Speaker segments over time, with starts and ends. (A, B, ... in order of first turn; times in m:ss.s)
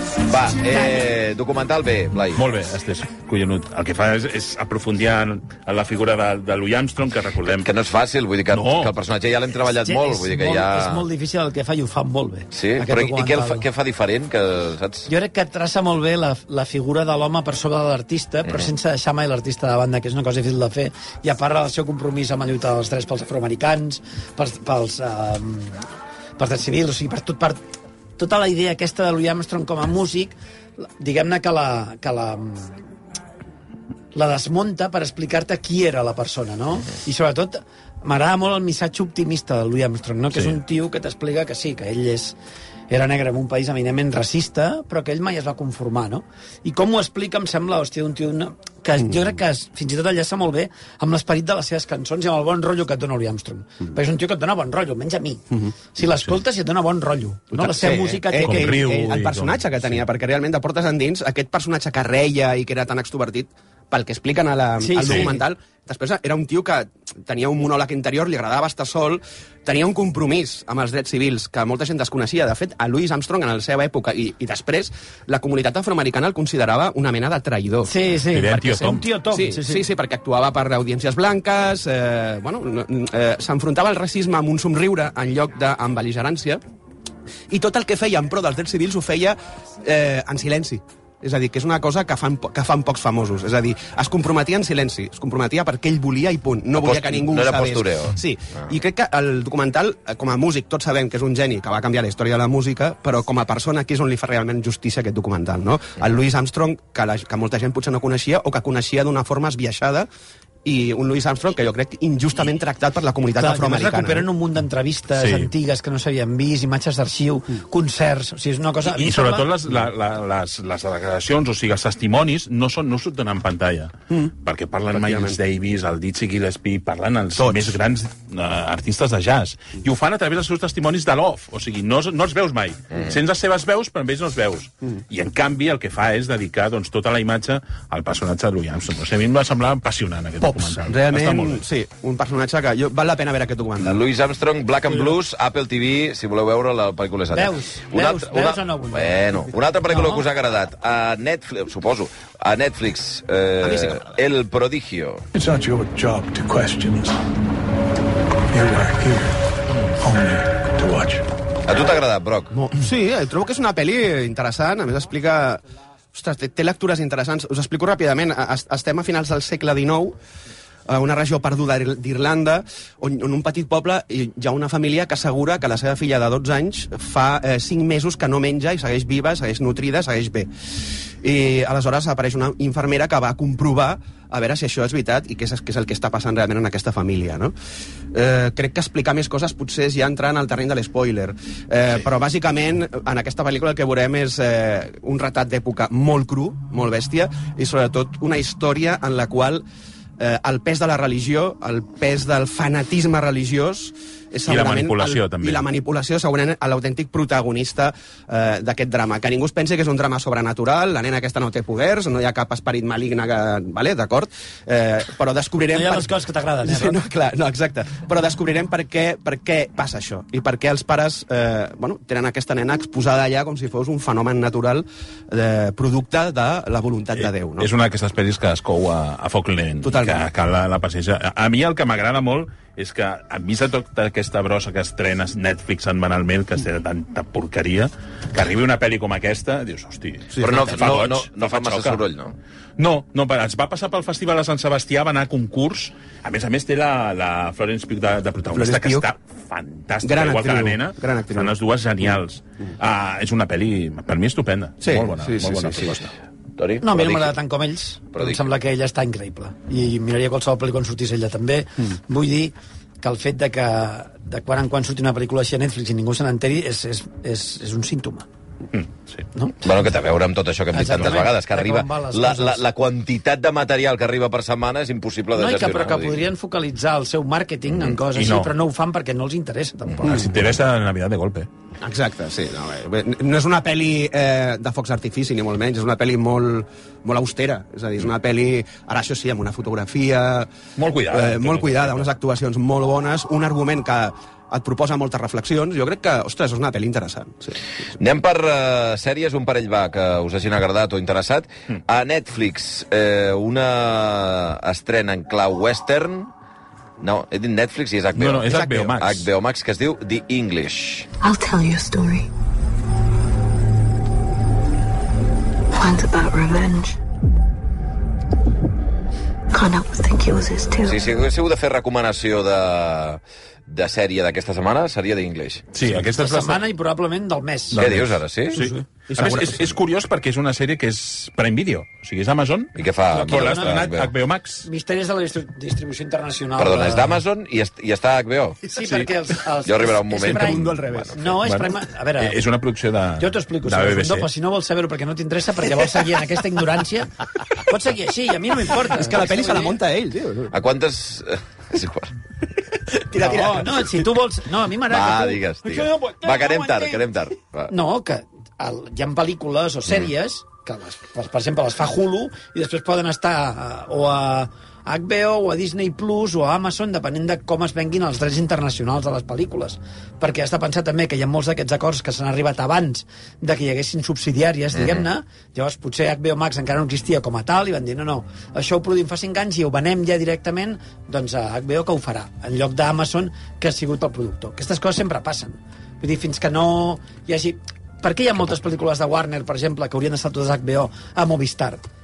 0:00.3-0:02.4 A
0:02.4-0:07.7 B
0:07.6-0:11.1 A
0:08.5-0:08.9 B
0:09.8-0:13.6 C
0:12.5-0:15.1 A
0:15.1-0:25.8 C
0:26.4-0:27.6 C
0:28.2-0:32.8 C
0:34.1-0:42.4 C
0:42.9-0:55.4 C
0:56.0-0:58.8 C
0:57.5-1:17.9 D
0:58.4-1:00.0 B
1:04.8-1:05.4 C
1:17.9-1:19.9 C
1:18.3-1:19.1 B
1:19.3-1:26.6 D
1:27.5-1:50.1 D
1:36.8-1:38.7 A
1:50.6-1:54.3 D
1:53.4-1:59.5 C
1:55.2-1:55.5 B
1:58.8-2:21.6 B
2:04.9-2:05.4 D
2:07.4-2:07.8 D
2:20.4-2:24.0 D
2:23.8-2:35.2 A
2:27.3-2:30.2 C
2:33.6-2:34.2 D
2:35.3-2:37.2 E
2:38.5-2:39.4 E
2:40.0-2:41.3 E
2:41.7-2:42.5 A
2:42.5-2:45.6 D
2:46.1-2:50.2 D
2:50.9-3:00.5 D
3:01.2-3:07.5 D
3:08.1-3:19.6 D
3:20.2-3:36.1 D
3:24.5-3:25.6 B
3:35.7-3:37.0 C
3:36.6-3:47.7 D
3:47.2-4:02.0 B
3:49.8-3:50.2 D
4:00.4-4:02.4 A
4:02.8-4:16.1 B
4:08.5-4:09.1 D
4:10.0-4:11.5 D
4:14.8-4:15.9 D
4:16.6-4:17.3 A
4:16.8-4:28.3 C
4:18.2-4:18.4 A
4:28.7-4:29.2 B
4:29.4-4:29.6 C
4:29.6-4:36.2 A
4:30.7-4:32.6 C
4:35.4-4:40.3 C
4:38.1-4:38.5 B
4:40.0-4:41.5 B
4:41.8-4:50.5 D
4:50.8-4:52.1 B
4:51.1-4:57.6 D
4:58.0-5:06.3 A
5:07.0-5:11.1 A
5:08.2-5:09.2 B
5:11.2-5:12.3 F
5:15.7-5:17.0 F
5:19.5-5:21.0 F
5:20.8-5:25.7 A
5:25.7-5:26.6 B
5:26.0-5:27.8 C
5:27.7-5:34.7 B
5:27.8-5:28.6 A
5:28.5-5:28.8 C
5:29.1-5:29.8 D
5:32.8-5:34.1 A
5:33.2-5:33.9 C
5:34.6-5:37.2 C
5:36.6-5:38.6 A
5:38.7-5:42.4 C
5:39.6-5:41.0 A
5:40.2-5:41.4 D
5:41.4-5:44.3 B
5:43.2-5:49.8 C
5:48.9-5:50.5 D
5:50.5-5:52.1 A
5:53.1-5:53.9 D
5:53.2-5:57.0 C
5:54.9-5:57.7 A
5:57.7-6:31.8 C
6:14.8-6:15.1 A